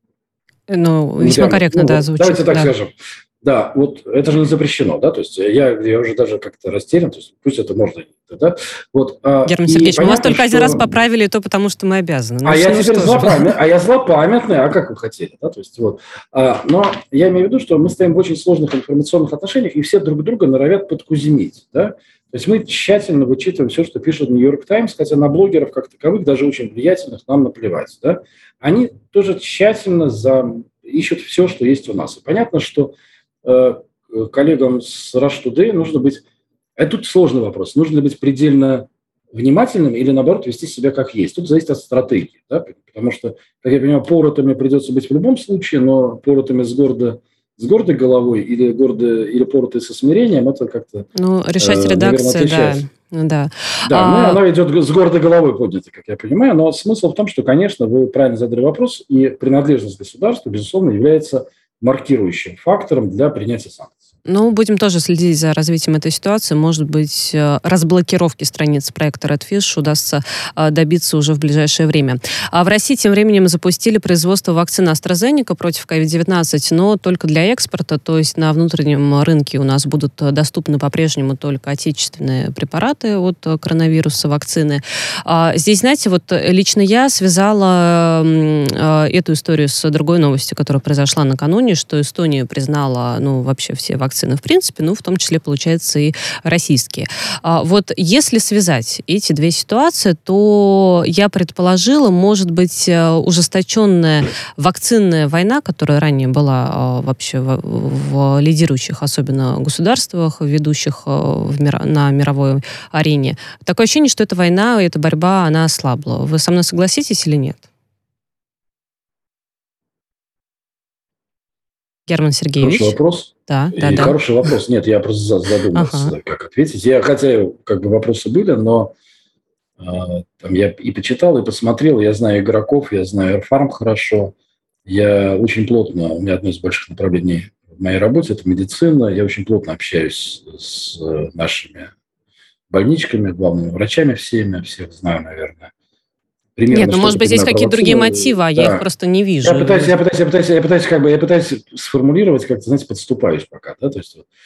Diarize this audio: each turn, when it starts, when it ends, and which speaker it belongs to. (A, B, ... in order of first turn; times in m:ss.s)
0:00.7-0:02.7 A
0:01.2-0:11.0 B
0:09.4-0:13.6 A
0:12.4-0:36.2 B
0:36.8-0:52.8 B
0:51.1-0:54.4 A
0:53.8-1:04.0 B
1:04.2-1:57.6 A
2:02.1-2:04.2 A
2:02.6-2:08.9 B
2:05.7-2:06.1 A
2:09.8-2:14.3 B
2:14.8-2:21.9 B
2:22.7-2:25.7 B
2:26.6-2:28.8 B
2:26.7-2:29.9 A
2:29.4-2:34.2 B